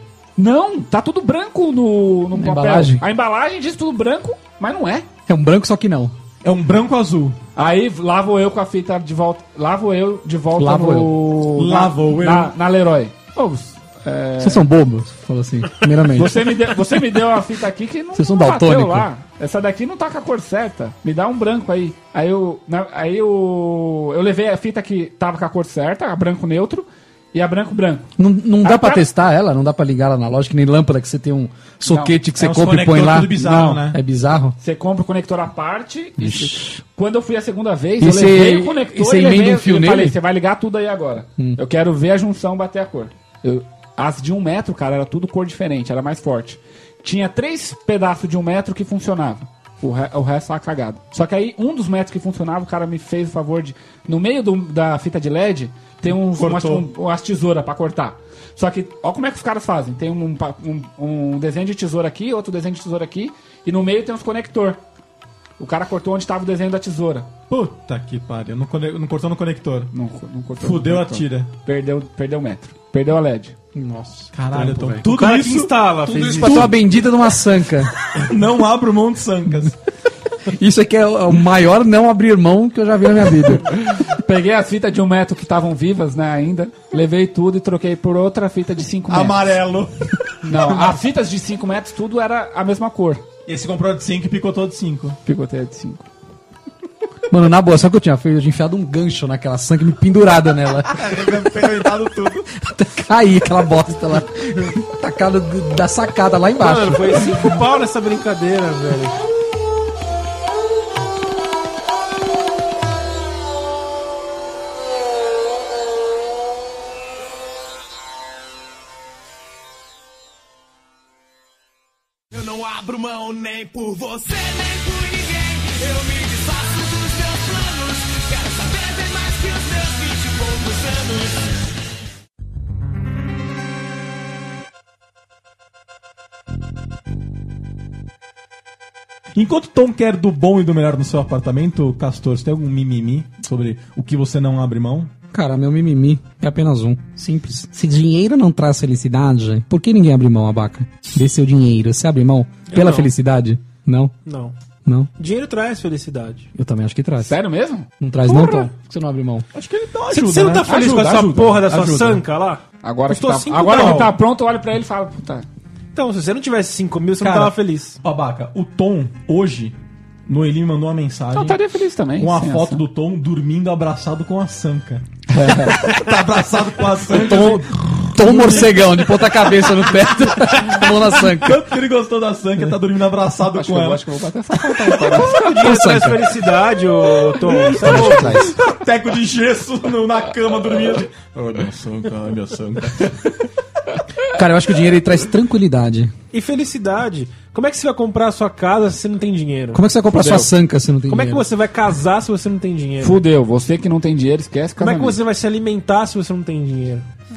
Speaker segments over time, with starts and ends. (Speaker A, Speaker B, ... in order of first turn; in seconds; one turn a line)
Speaker A: 0.4-5.1
Speaker B: 2.3-3.0
Speaker B: 5.3-6.1
Speaker C: 6.4-7.4
Speaker A: 7.6-14.7
Speaker B: 10.6-11.2
Speaker C: 11.5-12.5
Speaker B: 14.4-16.6
Speaker A: 16.1-28.1
Speaker B: 18.1-19.1
Speaker B: 28.2-34.6
Speaker A: 28.6-29.1
Speaker A: 31.9-32.2
Speaker C: 32.4-34.0
Speaker A: 33.4-33.8
Speaker A: 34.6-64.8
Speaker B: 36.2-36.8
Speaker B: 38.0-40.2
Speaker C: 56.2-56.9
Speaker A: 65.6-67.3
Speaker C: 67.5-69.9
Speaker A: 69.9-73.5
Speaker C: 70.6-71.5
Speaker B: 73.7-75.1
Speaker C: 74.3-76.8
Speaker D: 75.1-76.8
Speaker B: 76.1-77.9
Speaker C: 78.2-79.8
Speaker B: 80.5-83.7
Speaker A: 83.8-89.5
Speaker C: 89.1-90.7
Speaker A: 90.4-93.2
Speaker C: 93.5-95.2
Speaker A: 95.3-96.1
Speaker B: 97.3-101.4
Speaker C: 100.9-102.5
Speaker B: 102.6-107.6
Speaker D: 106.6-109.2
Speaker E: 122.3-131.6
Speaker C: 139.3-145.1
Speaker B: 145.3-154.1
Speaker D: 152.7-153.1
Speaker D: 154.2-154.5
Speaker D: 155.2-156.5
Speaker B: 156.6-157.4
Speaker A: 157.2-157.9
Speaker B: 158.0-159.5
Speaker C: 158.3-158.7
Speaker C: 159.5-162.2
Speaker D: 160.1-164.2
Speaker A: 160.7-161.6
Speaker A: 162.8-165.5
Speaker C: 163.7-164.1
Speaker D: 165.9-168.0
Speaker C: 167.2-169.8
Speaker C: 170.3-171.6
Speaker A: 171.3-172.8
Speaker C: 172.2-179.0
Speaker A: 175.3-176.0
Speaker B: 177.1-181.6
Speaker C: 180.3-184.1
Speaker A: 183.5-185.5
Speaker D: 185.1-188.5
Speaker B: 185.5-186.3
Speaker B: 187.8-188.6
Speaker C: 187.8-193.4
Speaker B: 194.3-196.1
Speaker D: 196.3-199.8
Speaker B: 199.7-201.4
Speaker A: 200.2-200.5
Speaker D: 201.1-203.2
Speaker A: 203.0-205.2
Speaker D: 204.8-207.1